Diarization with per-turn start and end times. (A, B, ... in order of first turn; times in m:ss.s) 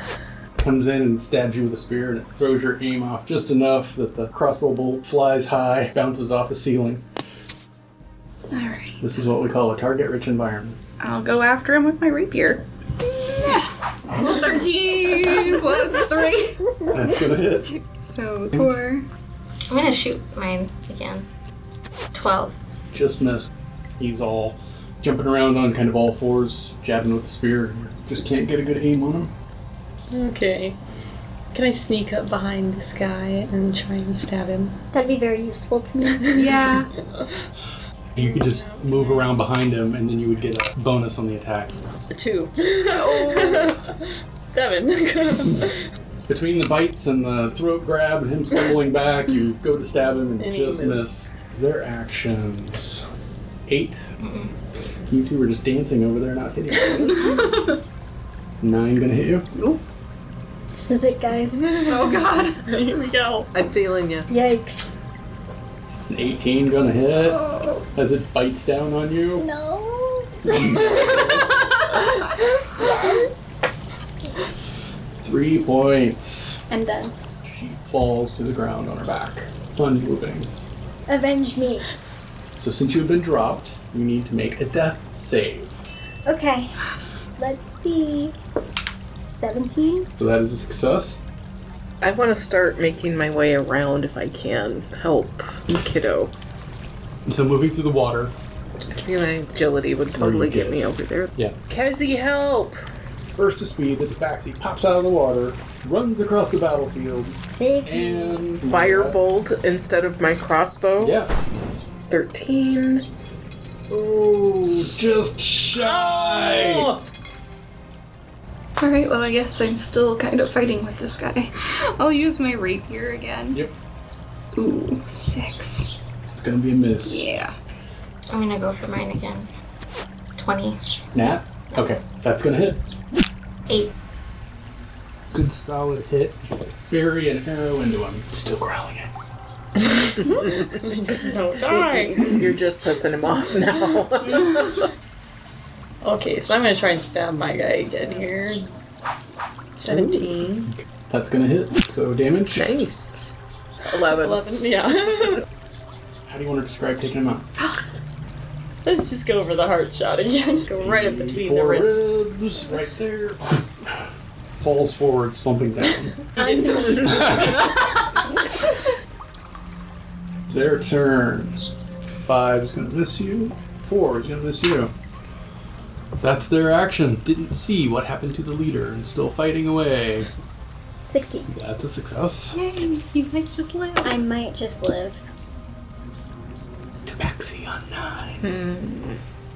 0:00.6-0:07.0 A
0:08.5-0:09.0 B
0:09.0-0:10.8 A
0:11.0-0:12.6 B
0:13.3-0:16.6 B
0:16.9-0:17.7 A
0:17.6-0:19.1 B
0:19.7-0:21.3 C
0:22.1-0:22.6 C
0:22.9-0:29.3 A
0:30.1-0:30.8 D
0:31.5-0:34.8 D
0:34.9-0:36.4 E
0:36.2-0:37.4 D
0:36.4-0:36.9 B
0:38.2-0:41.8 A
0:38.2-0:39.4 D
0:42.1-0:45.8 D
0:42.9-0:43.7 B
0:46.3-0:53.0 A
0:50.4-0:51.1 D
0:53.7-0:54.1 A
0:54.2-0:54.5 C
0:55.1-0:57.2 A
0:57.1-0:57.8 B
0:58.5-0:59.5 A
0:59.6-0:59.8 B
1:00.8-1:01.8 E
1:01.8-1:03.5 D
1:01.9-1:02.7 B
1:03.5-1:04.3 F
1:04.3-1:05.0 E
1:06.0-1:07.4 A
1:07.1-1:07.9 B
1:08.0-1:09.5 A
1:09.4-1:11.4 E
1:10.5-1:11.5 A
1:12.7-1:13.5 E
1:15.2-1:16.6 A
1:16.7-1:17.2 E
1:17.4-1:20.5 A
1:21.1-1:21.9 E
1:22.6-1:25.9 A
1:26.3-1:26.8 E
1:27.4-1:28.4 E
1:29.3-1:30.1 E
1:30.2-1:31.2 A
1:32.0-1:36.3 F
1:37.3-1:38.3 A
1:38.9-1:42.8 F
1:40.2-1:40.8 A
1:43.3-1:49.2 A
1:47.5-1:48.5 E
1:48.6-1:51.2 F
1:51.0-1:51.3 A
1:52.1-1:53.1 F
1:53.9-1:56.9 A
1:55.8-1:56.9 F
1:58.8-2:03.6 B
2:04.6-2:05.9 B
2:06.3-2:07.3 A
2:07.0-2:07.5 B
2:08.3-2:09.5 C
2:10.4-2:10.8 C
2:11.1-2:12.8 A
2:15.3-2:19.1 A
2:20.0-2:22.4 D
2:21.7-2:24.9 F
2:26.0-2:28.6 D
2:29.7-2:30.7 D
2:29.8-2:30.3 F
2:31.1-2:32.7 A
2:32.6-2:33.3 F
2:33.9-2:34.5 F
2:33.9-2:35.4 D
2:36.3-2:37.5 A
2:38.8-2:42.1 D
2:40.8-2:43.9 A
2:44.6-2:46.2 A
2:46.4-2:47.4 D
2:47.0-2:47.6 A
2:50.5-2:51.6 A
2:52.2-2:54.9 A
2:56.2-3:00.3 A
3:01.0-3:01.5 E
3:01.5-3:02.6 A
3:02.5-3:04.2 B
3:04.0-3:05.2 E
3:07.1-3:08.4 A
3:08.4-3:09.2 F